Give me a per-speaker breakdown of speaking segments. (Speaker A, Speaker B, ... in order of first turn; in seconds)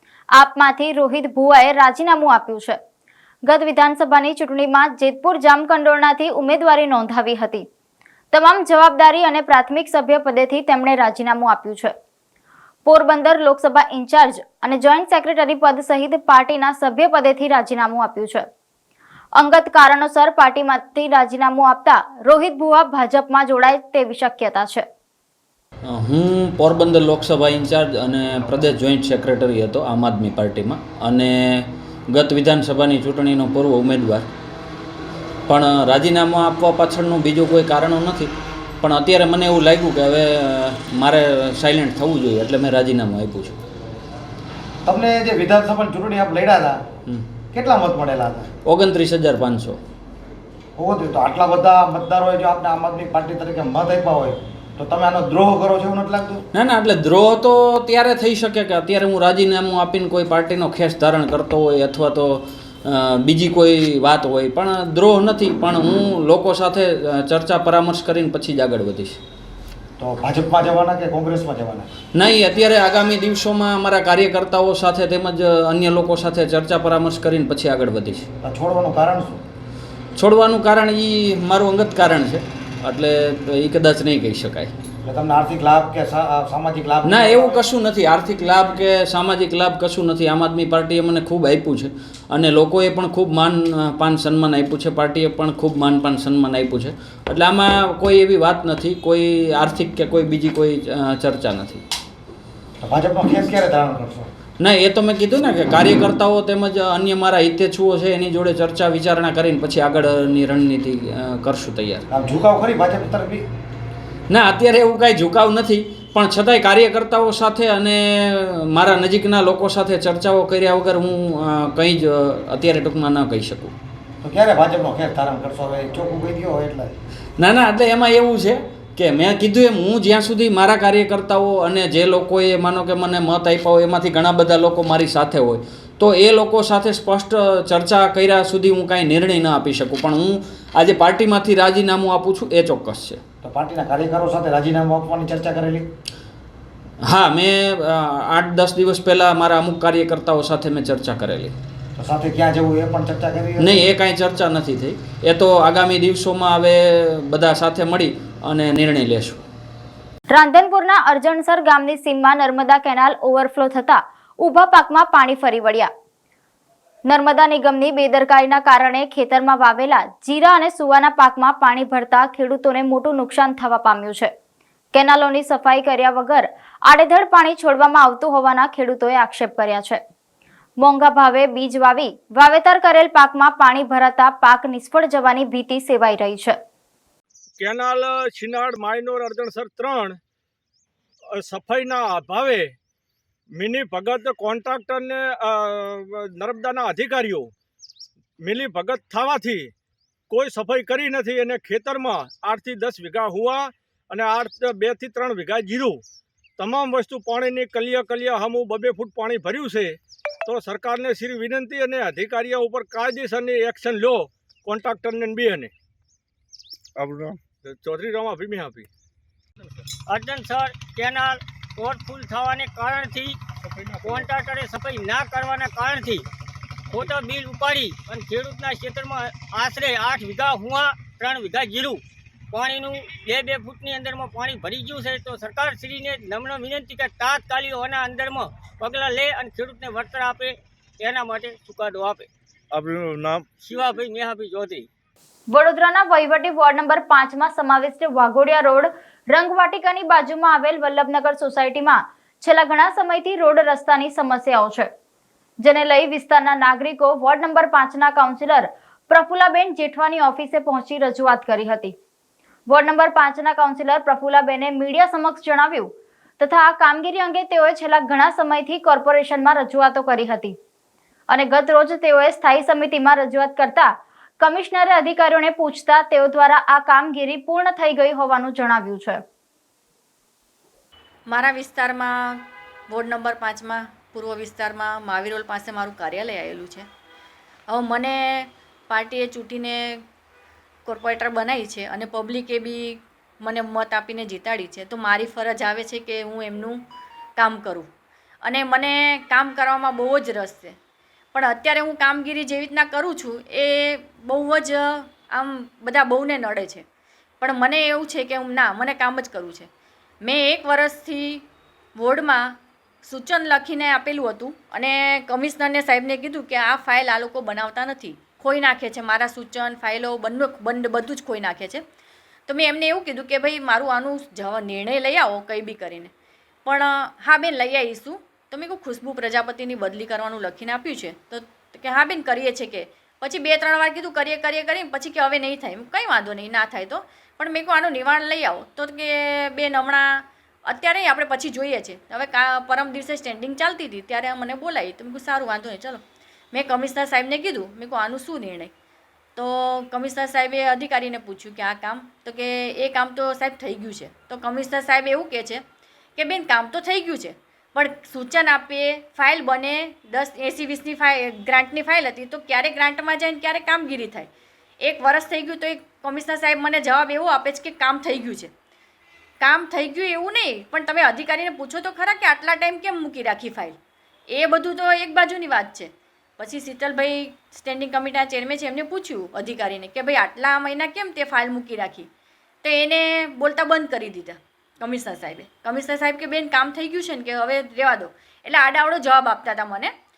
Speaker A: 0.3-2.8, 3.5-7.6, 8.3-11.9, 12.8-18.4, 19.4-24.9, 160.3-165.9, 167.1-174.3, 174.9-180.0, 180.8-186.6, 245.5-254.9, 255.6-261.9, 262.7-270.6, 271.3-279.2
Speaker B: 25.8-34.2, 35.5-43.6, 48.6-49.8, 56.5-69.2, 72.1-78.3, 80.2-84.7, 87.0-101.8, 104.6-112.0, 114.3-123.7, 127.4-143.2, 147.0-151.5, 153.6-159.4
Speaker C: 44.8-46.8, 47.5-48.5, 50.8-56.4, 70.0-71.9, 78.4-79.4, 85.0-87.6, 102.8-104.3, 112.1-113.5, 124.2-127.0, 143.4-145.8, 151.9-153.8
Speaker D: 187.6-190.2, 191.4-192.7, 193.5-197.5, 198.4-199.7, 200.3-206.0, 206.6-215.7, 217.6-218.9, 223.8-224.2, 242.8-243.2
Speaker E: 220.1-223.4, 224.0-226.2, 226.9-232.0, 232.5-242.3, 243.6-244.8
Speaker F: 281.3-286.9, 287.7-290.0, 290.9-296.8, 297.4-297.9, 298.4-300.8, 301.3-306.8, 307.4-309.7, 310.2-311.4, 311.9-321.8, 322.5-326.1, 326.6-348.7, 349.4-355.6, 356.2-364.3, 364.8-368.5, 369.4-373.8, 374.3-382.1, 382.6-389.9